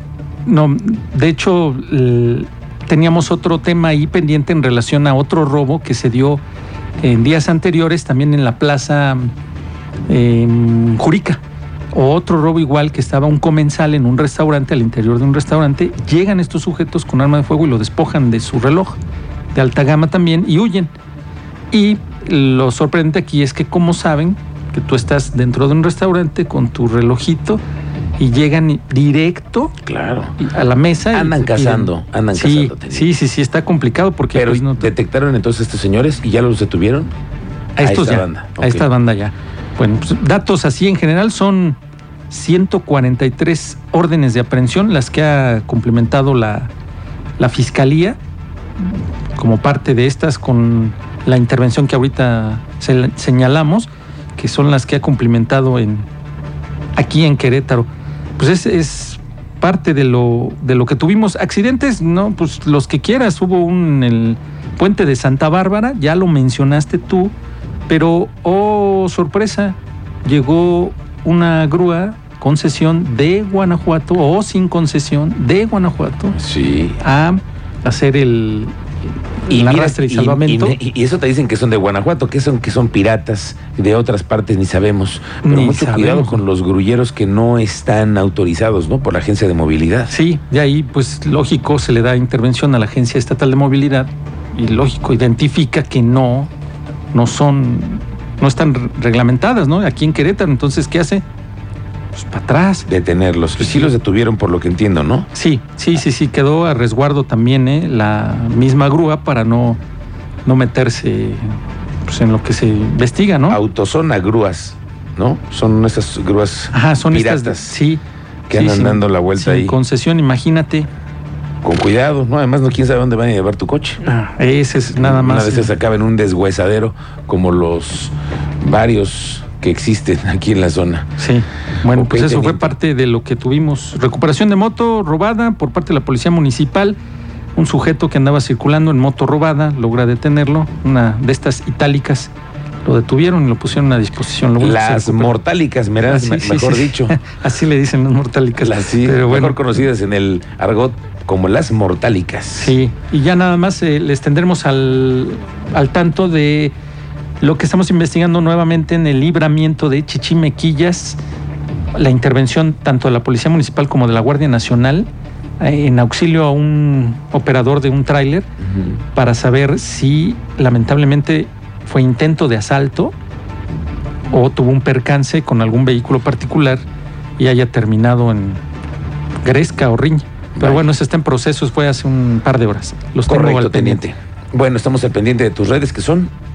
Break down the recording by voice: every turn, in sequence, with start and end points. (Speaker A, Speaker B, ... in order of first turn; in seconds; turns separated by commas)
Speaker A: 0.5-6.4, Speaker A: 7.0-9.3, Speaker A: 10.1-11.4, Speaker A: 11.9-19.0, Speaker A: 19.5-20.9, Speaker A: 21.7-27.6, Speaker A: 28.2-29.7, Speaker B: 29.8-30.4, Speaker A: 30.4-34.9, Speaker B: 31.1-33.1, Speaker B: 34.3-37.1, Speaker A: 37.8-46.7, Speaker B: 37.8-38.9, Speaker A: 47.4-48.2, Speaker A: 49.4-56.1, Speaker A: 57.0-67.3, Speaker A: 67.9-76.4, Speaker B: 76.3-77.0, Speaker A: 77.0-78.7, Speaker A: 79.4-80.8, Speaker B: 79.5-90.1, Speaker A: 85.4-86.4, Speaker A: 90.1-96.5, Speaker A: 97.1-101.2, Speaker A: 102.1-102.9, Speaker B: 102.8-105.3, Speaker A: 103.6-103.9, Speaker A: 105.3-109.8, Speaker A: 110.4-111.5, Speaker A: 112.0-113.6, Speaker B: 113.5-117.8, Speaker A: 116.7-120.9, Speaker B: 118.5-119.8, Speaker B: 121.6-124.0, Speaker A: 124.0-125.7, Speaker B: 125.0-131.1, Speaker A: 131.2-137.0, Speaker B: 131.9-132.7, Speaker A: 137.5-142.3, Speaker A: 142.8-145.3, Speaker B: 144.6-147.2, Speaker A: 146.0-149.8, Speaker B: 148.6-152.8, Speaker A: 152.6-156.7, Speaker A: 157.4-161.2, Speaker A: 161.9-165.1, Speaker A: 165.6-168.5, Speaker B: 168.6-169.0, Speaker A: 169.1-173.1, Speaker A: 174.3-176.8, Speaker A: 177.4-178.6, Speaker A: 179.4-184.0, Speaker B: 180.6-180.9, Speaker B: 183.3-186.3